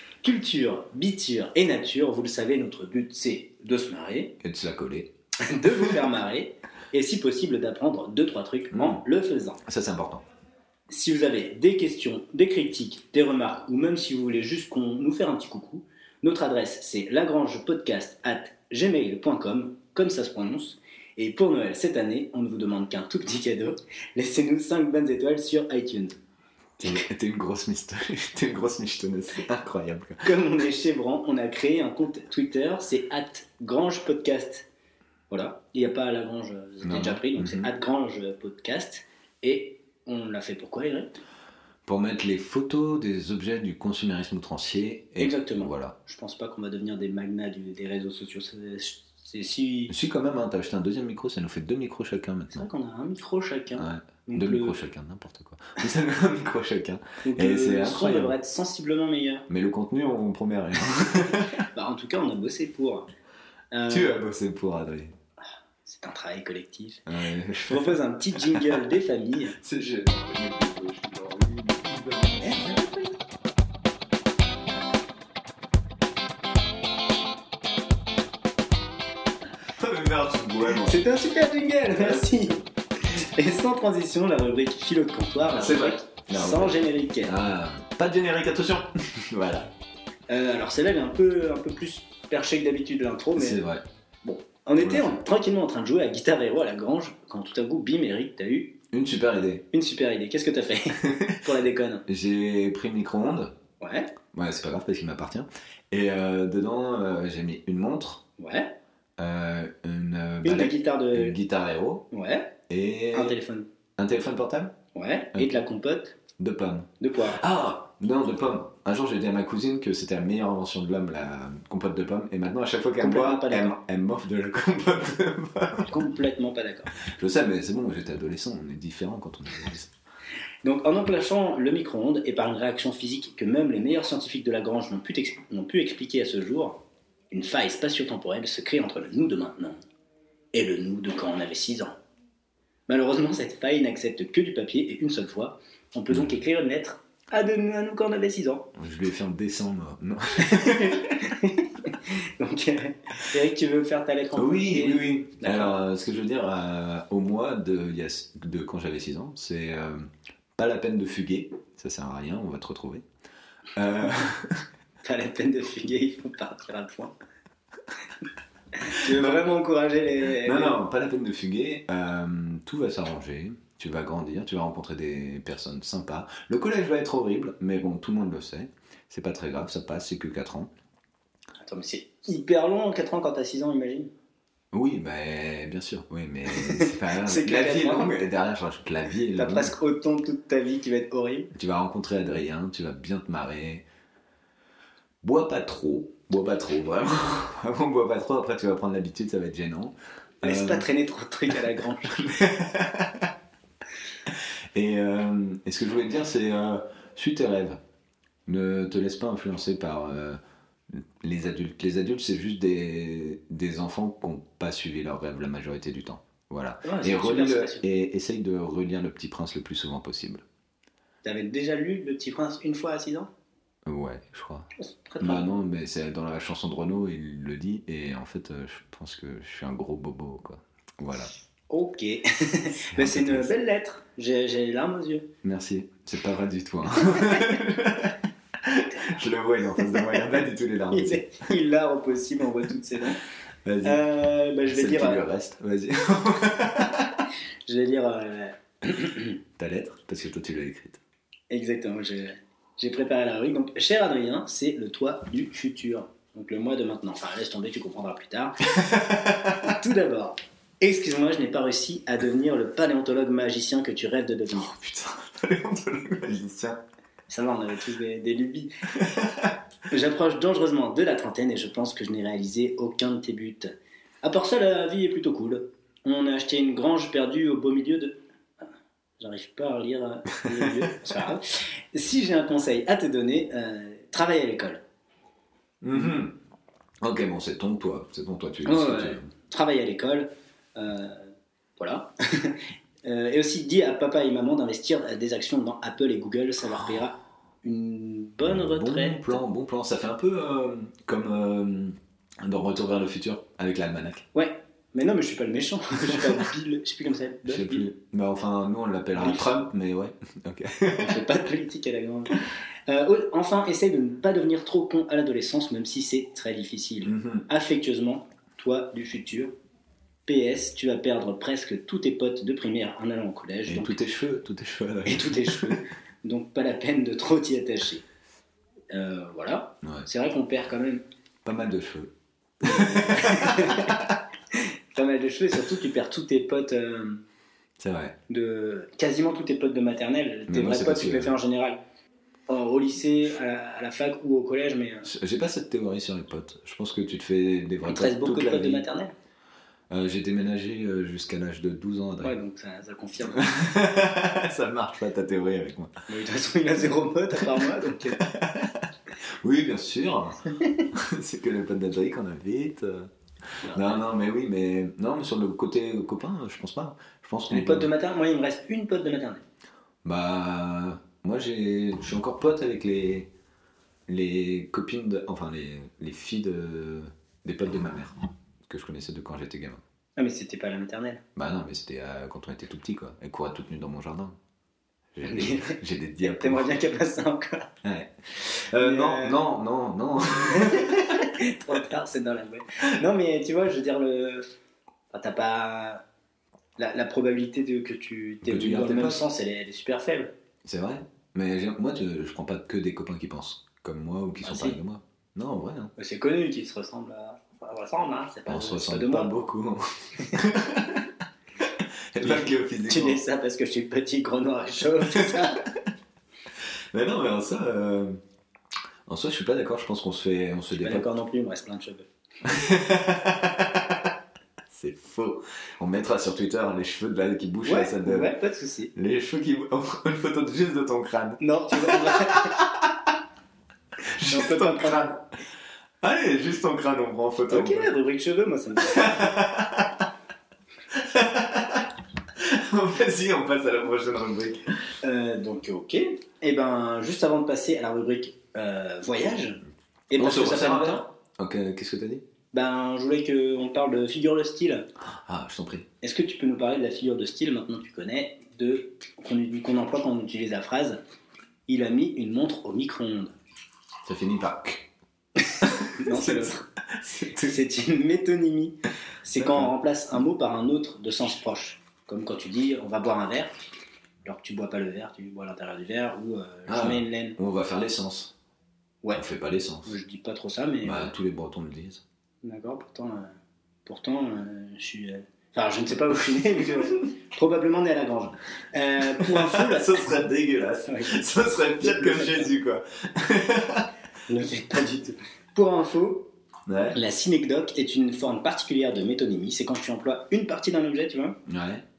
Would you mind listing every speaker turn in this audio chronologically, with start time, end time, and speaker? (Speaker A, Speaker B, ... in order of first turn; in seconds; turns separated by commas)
Speaker A: 0.2-4.3, Speaker B: 4.4-5.1, Speaker A: 5.4-9.6, Speaker B: 8.7-9.0, Speaker B: 9.7-10.2, Speaker A: 10.9-26.2, Speaker B: 26.8-30.3, Speaker A: 30.2-34.7, Speaker A: 35.3-41.2, Speaker B: 36.8-37.7, Speaker B: 41.9-46.0, Speaker A: 45.2-49.9, Speaker B: 49.9-52.7, Speaker A: 52.5-54.8, Speaker B: 53.8-58.3, Speaker A: 57.2-59.5, Speaker B: 59.5-61.5, Speaker A: 61.1-63.1, Speaker A: 63.7-64.2, Speaker B: 63.9-65.2, Speaker A: 65.8-67.1, Speaker B: 67.1-68.8, Speaker A: 67.7-69.6, Speaker B: 69.6-72.7, Speaker A: 72.4-73.2, Speaker B: 79.8-81.0, Speaker A: 80.8-87.4, Speaker B: 82.0-82.3, Speaker B: 85.5-89.7, Speaker A: 90.3-93.6, Speaker B: 93.4-93.8, Speaker A: 94.2-98.8, Speaker B: 94.8-95.2, Speaker B: 98.9-99.7, Speaker A: 99.7-102.0, Speaker B: 102.1-103.5, Speaker A: 103.8-104.1, Speaker B: 104.3-108.2, Speaker A: 108.4-108.8, Speaker B: 109.2-112.1, Speaker A: 110.4-111.3, Speaker A: 112.1-112.5, Speaker B: 112.7-113.4, Speaker A: 113.1-113.7, Speaker B: 114.0-114.8, Speaker A: 115.0-116.2, Speaker B: 116.4-126.0, Speaker A: 117.0-117.4, Speaker A: 123.0-123.8, Speaker A: 125.8-126.9, Speaker B: 127.0-129.9, Speaker A: 130.6-139.8, Speaker A: 140.5-141.9, Speaker A: 142.9-148.7, Speaker B: 148.8-151.2, Speaker A: 150.4-155.8, Speaker B: 154.4-163.1, Speaker B: 163.8-164.7, Speaker A: 165.0-167.1, Speaker A: 168.8-170.8, Speaker B: 169.0-169.5, Speaker B: 170.4-180.7, Speaker A: 181.7-184.1, Speaker B: 184.7-189.8, Speaker A: 186.5-188.2, Speaker A: 189.3-191.5, Speaker B: 191.5-193.8, Speaker B: 195.2-200.9, Speaker A: 200.4-202.5, Speaker B: 202.2-203.3, Speaker B: 204.3-207.8, Speaker B: 208.5-210.4, Speaker B: 210.9-220.4, Speaker A: 216.8-217.8, Speaker A: 221.2-223.3, Speaker B: 223.9-224.7, Speaker A: 224.8-225.5, Speaker B: 225.2-231.3, Speaker A: 231.7-235.3, Speaker B: 232.9-233.6, Speaker B: 235.4-241.3, Speaker A: 237.1-237.6, Speaker A: 239.9-240.1, Speaker A: 240.9-243.2, Speaker B: 243.7-244.0, Speaker A: 243.8-245.2, Speaker B: 244.7-247.2, Speaker A: 247.7-249.4, Speaker B: 249.6-251.0, Speaker A: 251.5-258.7, Speaker B: 258.7-259.7, Speaker A: 259.6-264.7, Speaker B: 264.6-266.8, Speaker A: 267.3-268.7, Speaker B: 269.0-269.6, Speaker A: 269.9-278.2, Speaker A: 279.2-284.8, Speaker B: 285.8-286.4, Speaker B: 287.0-289.3, Speaker A: 288.6-299.4, Speaker B: 298.4-304.3, Speaker A: 304.3-307.9, Speaker B: 307.5-311.2, Speaker A: 309.2-309.5, Speaker A: 310.9-319.5, Speaker B: 317.1-317.5, Speaker A: 320.3-324.0, Speaker B: 323.7-325.8, Speaker A: 325.1-328.1, Speaker A: 328.9-331.0, Speaker B: 331.4-334.1, Speaker A: 332.7-337.2, Speaker B: 337.8-338.2, Speaker A: 338.3-341.8, Speaker B: 340.5-341.4, Speaker A: 342.5-345.1, Speaker B: 345.1-348.9, Speaker A: 347.9-349.1, Speaker B: 349.9-352.4, Speaker A: 352.2-353.5, Speaker B: 353.3-355.9, Speaker A: 356.1-358.2, Speaker B: 358.2-358.9, Speaker B: 359.4-363.1, Speaker A: 360.6-360.9, Speaker A: 363.6-364.0, Speaker B: 363.7-367.9, Speaker A: 367.5-369.4, Speaker B: 370.0-373.3, Speaker B: 374.1-379.8, Speaker A: 380.2-381.2, Speaker B: 381.4-384.4, Speaker B: 385.1-386.7, Speaker A: 385.2-387.7, Speaker B: 387.8-391.3, Speaker A: 388.8-389.4, Speaker A: 390.5-394.5, Speaker A: 395.1-396.0, Speaker A: 396.8-400.3, Speaker B: 398.5-399.3, Speaker B: 400.6-405.9, Speaker A: 404.4-404.8, Speaker A: 406.0-409.3, Speaker B: 408.5-411.1, Speaker B: 411.6-413.2, Speaker A: 412.2-415.7, Speaker B: 415.1-415.5, Speaker B: 416.9-418.2, Speaker B: 419.1-421.1, Speaker A: 420.8-422.1, Speaker B: 422.4-424.1, Speaker B: 424.7-428.3, Speaker A: 427.6-428.9, Speaker B: 428.9-433.1, Speaker A: 431.4-432.6, Speaker B: 434.1-435.2, Speaker A: 434.3-435.2, Speaker B: 436.0-437.9, Speaker A: 437.5-439.3, Speaker B: 438.9-440.1, Speaker B: 440.9-444.7, Speaker A: 445.0-451.0, Speaker B: 450.2-452.2, Speaker A: 452.5-454.9, Speaker B: 455.1-455.9, Speaker A: 456.0-461.0, Speaker A: 461.7-463.3, Speaker B: 464.1-464.9, Speaker A: 465.5-466.7, Speaker B: 465.6-467.6, Speaker A: 467.4-473.6, Speaker B: 469.4-469.7, Speaker A: 474.2-477.4, Speaker B: 476.7-478.4, Speaker B: 479.1-479.9, Speaker A: 479.9-481.1, Speaker B: 480.8-482.0, Speaker A: 482.4-483.3, Speaker A: 483.9-490.1, Speaker B: 489.2-493.9, Speaker A: 490.9-492.5, Speaker A: 494.3-496.3, Speaker B: 496.7-497.0, Speaker A: 496.9-501.4, Speaker B: 501.5-501.9